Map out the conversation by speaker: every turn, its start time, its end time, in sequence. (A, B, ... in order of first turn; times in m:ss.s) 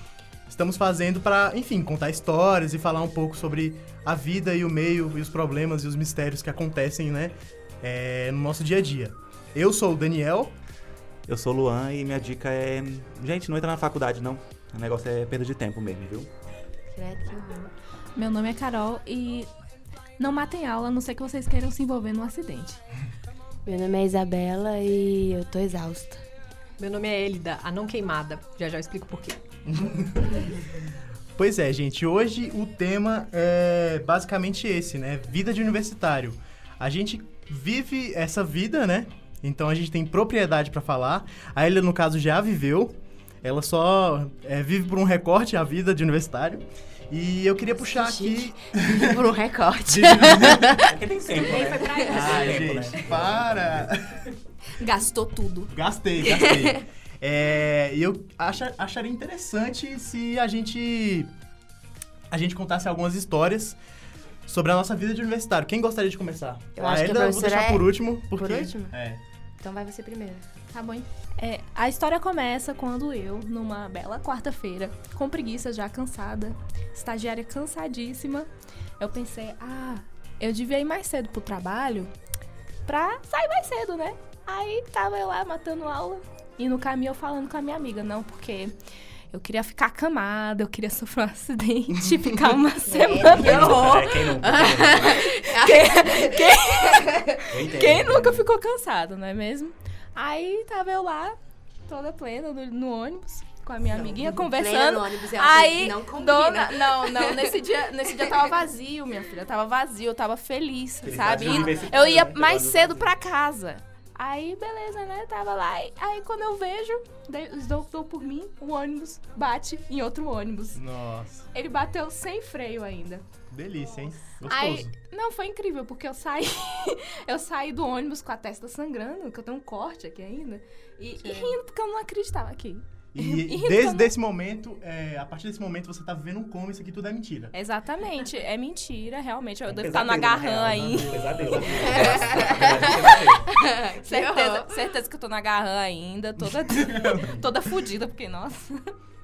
0:00.5-0:10.5 A
0:11.3-0:16.3 B
0:16.9-0:17.7 C
0:18.2-0:19.5 D
0:20.2-0:22.8 D
0:23.6-0:26.2 C
0:26.8-0:29.4 E
0:29.7-0:30.8 A
0:31.4-0:49.3 A
0:47.7-0:51.0 C
0:49.9-0:50.8 A
0:50.8-0:53.9 B
0:51.3-0:52.8 E
0:52.0-0:54.3 A
0:54.8-0:55.7 D
0:55.7-1:01.3 A
0:56.2-0:56.8 C
1:02.3-1:03.8 A
1:04.5-1:09.2 A
1:06.8-1:09.0 C
1:09.6-1:10.4 C
1:10.7-1:22.1 D
1:22.8-1:28.8 D
1:29.3-2:00.8 D
1:32.8-1:33.7 C
1:33.2-1:35.2 B
1:34.4-1:37.4 C
1:37.5-1:38.4 B
1:43.8-1:47.6 C
1:51.0-1:53.1 B
1:51.3-1:52.1 C
2:00.7-2:01.5 A
2:01.5-2:03.2 D
2:03.5-2:04.9 A
2:04.4-2:14.1 D
2:13.1-2:17.5 A
2:17.5-2:22.4 D
2:19.7-2:23.5 B
2:20.6-2:22.5 A
2:21.8-2:24.8 C
2:24.0-2:28.9 D
2:26.4-2:27.5 A